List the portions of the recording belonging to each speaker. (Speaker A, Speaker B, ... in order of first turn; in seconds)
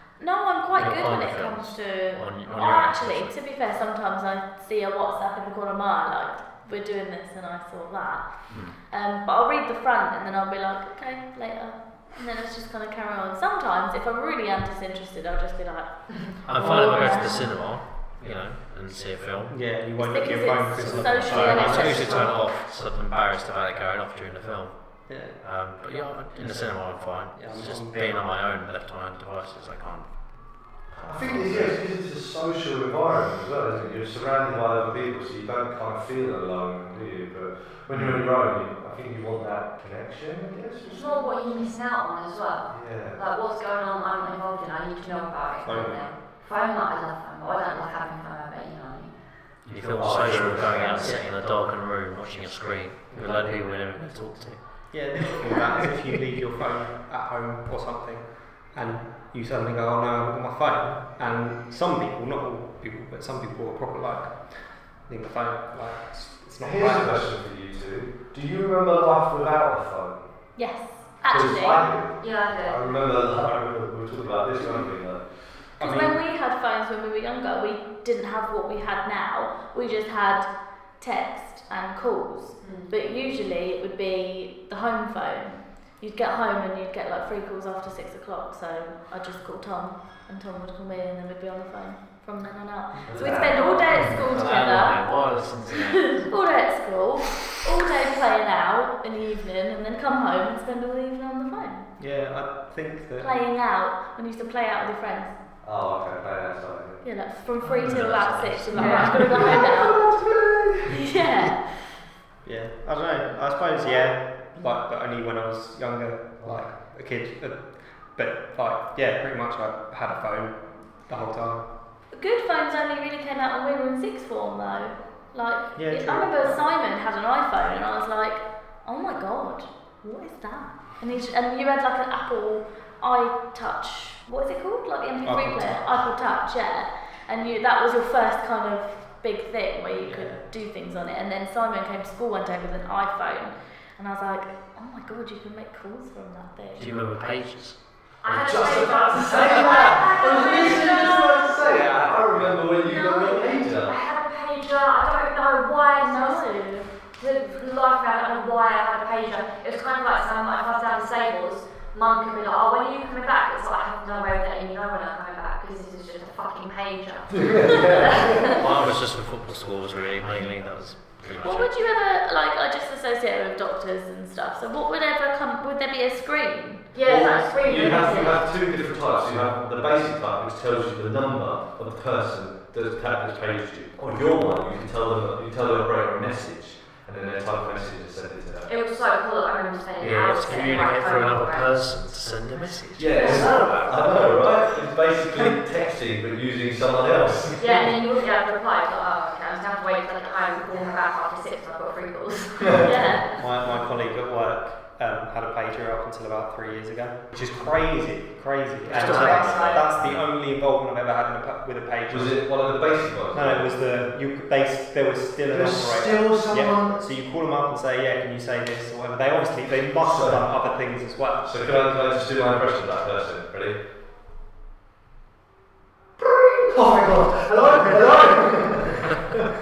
Speaker A: 0.1-17.5, 20.0-22.3, 70.5-71.8, 75.8-101.9, 103.2-105.3, 107.0-110.0, 110.9-111.7, 122.1-146.9, 150.1-151.5, 152.8-153.3, 156.0-156.9, 171.4-176.9, 202.8-203.4
Speaker B: 0.7-3.3, 8.5-8.7, 16.4-19.6, 20.8-30.1, 30.9-31.8, 37.9-38.2, 49.6-55.6, 93.9-96.2, 107.8-109.2, 146.8-147.8, 168.4-171.7, 190.0-194.3, 208.9-210.2
Speaker C: 19.5-22.3, 25.1-25.4, 27.3-28.2, 45.6-46.1, 53.1-53.5, 54.9-67.2, 75.8-76.2, 102.0-103.3, 112.4-121.6, 125.8-126.6, 135.2-136.1, 140.0-140.5, 193.6-194.2, 203.3-212.4, 213.3-221.5, 227.5-228.1
Speaker D: 21.4-22.3, 40.9-49.1, 72.2-72.8, 82.6-82.9, 108.7-109.6, 148.2-151.6, 152.9-156.6, 157.1-168.6, 176.9-178.4, 188.7-191.8, 197.6-203.4, 209.4-209.7
Speaker E: 31.0-41.2, 42.7-43.2, 49.8-51.2, 66.6-70.3, 71.2-75.5, 93.1-94.0, 105.6-107.0, 109.2-111.1, 116.4-116.7, 148.2-154.0, 167.3-168.6, 177.0-188.7, 193.0-197.8, 212.1-213.7, 215.5-217.0, 220.0-220.4, 221.4-223.8, 226.2-229.3